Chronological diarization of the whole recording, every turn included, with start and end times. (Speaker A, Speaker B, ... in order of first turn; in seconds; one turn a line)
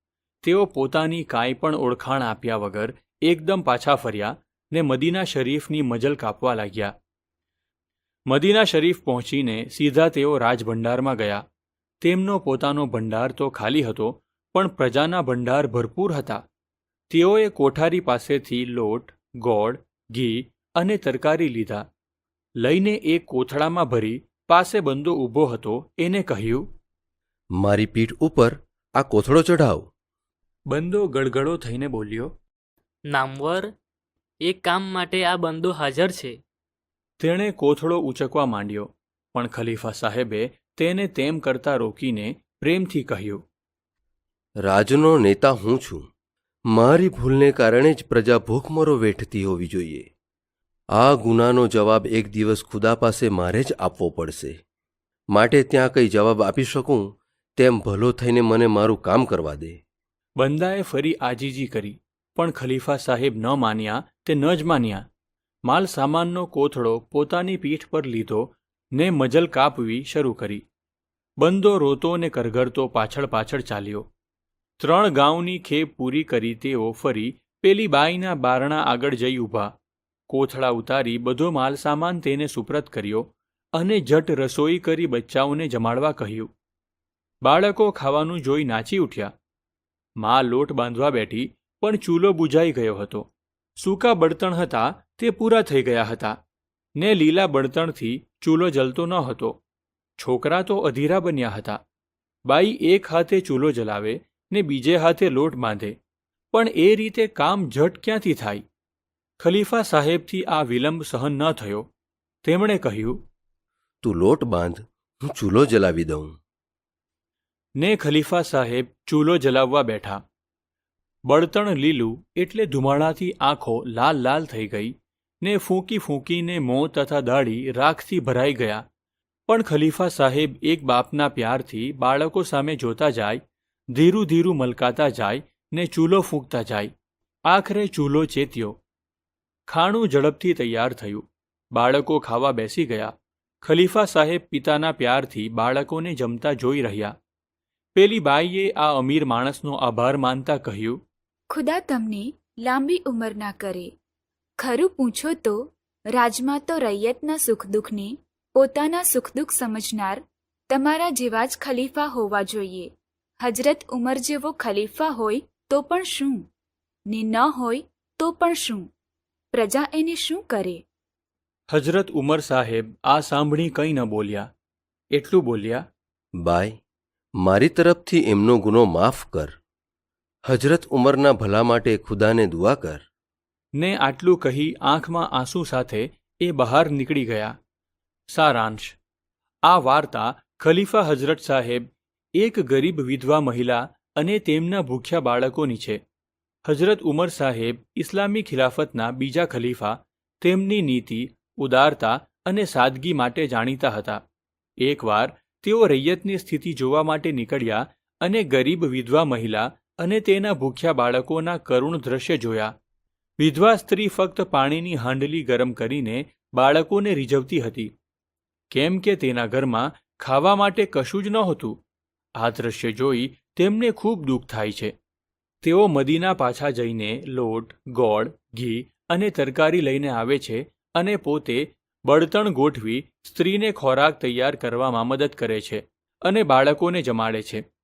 Speaker A: 0.4-6.9
Speaker A: 8.3-11.4
Speaker A: 12.0-16.4
Speaker A: 17.1-21.8
Speaker A: 22.6-26.6
Speaker B: 27.6-29.9
Speaker A: 30.7-32.3
Speaker C: 33.1-33.7
Speaker C: 34.4-36.4
Speaker A: 37.2-43.4
Speaker B: 44.6-46.0
Speaker B: 46.7-50.1
Speaker B: 51.0-54.6
Speaker B: 55.3-57.0
Speaker B: 57.6-59.8
Speaker A: 60.4-65.0
Speaker A: 65.7-70.6
Speaker A: 71.4-74.1
Speaker A: 74.8-79.7
Speaker A: 80.3-86.5
Speaker A: 87.4-89.3
Speaker A: 90.2-96.4
Speaker A: 97.0-99.6
Speaker A: 100.2-101.8
Speaker A: 102.5-105.9
Speaker A: 106.5-108.6
Speaker A: 109.4-111.9
Speaker A: 112.4-113.2
Speaker B: 114.0-116.3
Speaker A: 117.8-120.2
Speaker A: 121.3-128.8
Speaker A: 129.5-136.9
Speaker A: 137.5-138.8
Speaker A: 139.7-147.1
Speaker A: 147.9-151.0
Speaker D: 151.5-153.9
Speaker D: 154.6-155.6
Speaker D: 156.1-166.4
Speaker D: 167.1-168.8
Speaker D: 169.5-170.8
Speaker A: 171.7-174.5
Speaker A: 175.1-175.8
Speaker B: 176.4-176.8
Speaker B: 177.4-179.5
Speaker B: 180.5-183.0
Speaker A: 183.8-187.5
Speaker A: 188.3-188.9
Speaker A: 189.7-191.8
Speaker A: 192.4-196.0
Speaker A: 196.7-204.2
Speaker A: 204.8-212.7
Speaker A: 213.4-217.9
Speaker A: 218.7-221.8
Speaker A: 222.4-224.9
Speaker A: 225.6-237.6